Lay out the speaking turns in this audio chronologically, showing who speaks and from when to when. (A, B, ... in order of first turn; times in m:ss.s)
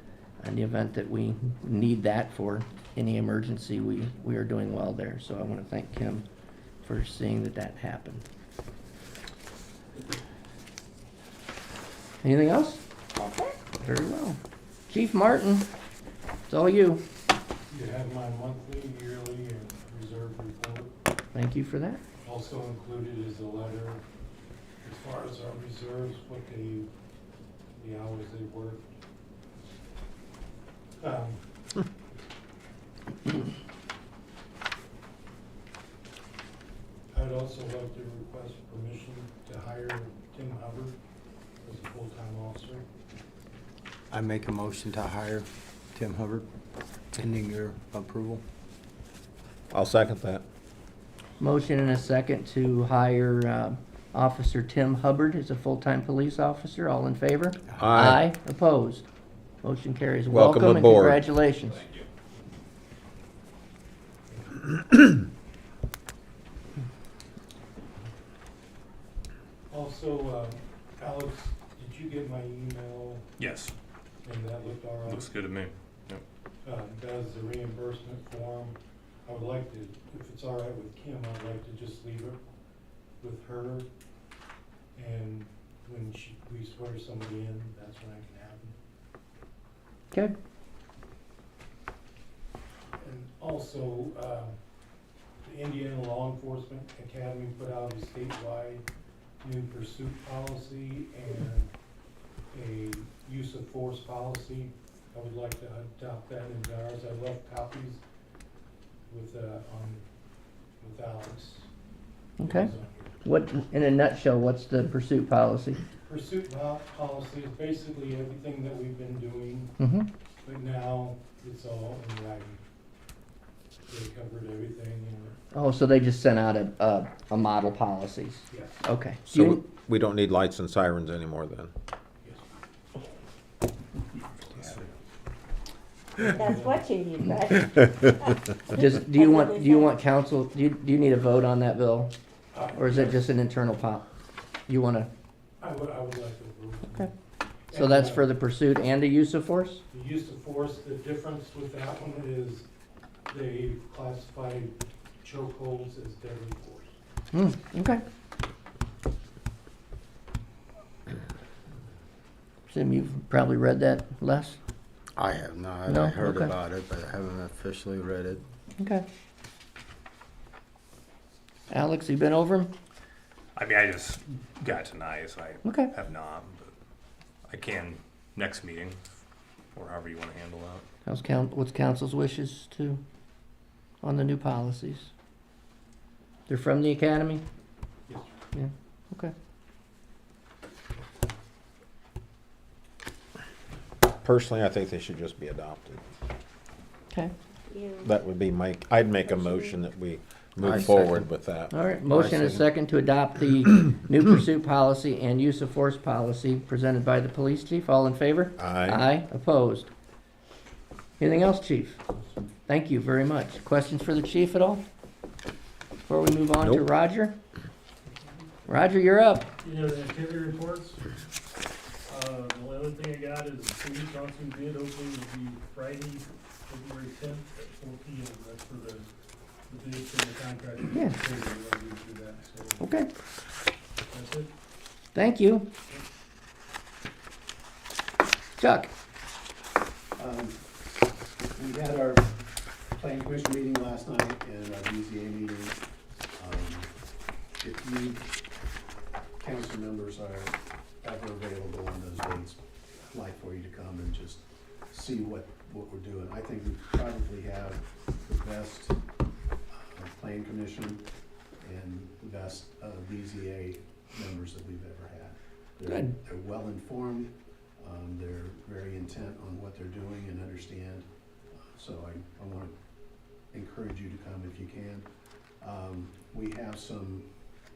0:00.4-0:06.2 A
0:06.8-0:08.2 A
0:12.2-0:12.8 A
0:13.8-0:14.4 A
0:14.9-0:15.7 A
0:16.5-0:17.0 A
0:17.7-0:20.9 B
0:21.3-0:22.0 A
0:22.2-0:24.0 B
0:24.8-0:26.9 B
0:27.8-0:28.9 B
0:31.0-0:31.4 B
0:37.1-0:41.0 B
0:41.6-0:42.8 B
0:44.1-0:46.4 C
0:47.1-0:48.4 C
0:49.7-0:50.4 D
0:51.4-0:59.0 A
0:57.8-0:58.2 D
0:59.6-1:01.8 A
1:00.3-1:01.2 D
1:04.3-1:04.7 B
1:09.7-1:13.2 B
1:13.4-1:13.7 E
1:14.2-1:15.3 B
1:15.0-1:16.2 E
1:16.6-1:22.4 B
1:23.2-1:23.8 B
1:24.9-1:28.7 B
1:33.0-1:34.5 B
1:35.4-1:38.8 B
1:39.4-1:41.7 B
1:42.5-1:48.0 B
1:49.1-1:50.0 B
1:50.8-1:51.7 B
1:52.4-1:52.7 A
1:52.4-1:53.2 B
1:53.2-1:55.8 A
1:56.1-1:59.7 B
1:59.8-2:00.1 A
2:00.4-2:02.6 B
2:03.9-2:05.4 B
2:05.5-2:09.6 A
2:08.5-2:08.8 B
2:09.3-2:11.7 D
2:12.2-2:12.5 B
2:14.5-2:14.8 B
2:16.2-2:16.8 B
2:16.3-2:19.9 F
2:18.7-2:22.1 A
2:22.5-2:23.2 B
2:22.7-2:24.1 A
2:24.7-2:25.1 A
2:25.6-2:27.1 B
2:27.7-2:28.3 B
2:27.7-2:29.8 A
2:29.9-2:32.7 B
2:33.3-2:36.9 B
2:37.3-2:38.0 A
2:42.7-2:44.6 A
2:45.2-2:48.4 C
2:45.9-2:46.5 A
2:48.8-2:49.0 A
2:51.7-2:52.7 A
2:53.5-2:56.7 E
2:55.6-2:55.9 A
2:57.4-2:59.0 E
2:59.7-3:00.8 E
3:01.0-3:03.0 A
3:04.0-3:05.1 A
3:06.5-3:07.4 A
3:08.5-3:09.3 A
3:14.2-3:16.0 D
3:17.7-3:18.1 F
3:18.0-3:21.8 D
3:19.4-3:19.7 F
3:20.6-3:21.3 C
3:21.7-3:29.9 A
3:22.1-3:22.6 C
3:28.6-3:29.0 D
3:31.2-3:32.0 A
3:32.7-3:34.8 A
3:36.1-3:37.4 A
3:36.6-3:36.9 D
3:38.6-3:39.5 A
3:39.6-3:41.0 G
3:42.1-3:49.0 G
3:49.7-3:52.3 G
3:50.9-3:51.2 A
3:51.8-3:52.7 B
3:52.8-3:53.1 A
3:54.1-3:54.4 G
3:55.1-3:55.7 A
3:58.6-3:58.9 A
4:00.2-4:00.6 H
4:01.4-4:02.3 H
4:02.9-4:05.8 H
4:06.4-4:06.9 H
4:07.6-4:08.3 H
4:09.4-4:19.0 H
4:19.7-4:21.0 H
4:21.6-4:31.0 H
4:25.8-4:26.1 A
4:31.7-4:32.7 H
4:33.5-4:35.0 H
4:35.6-4:37.3 H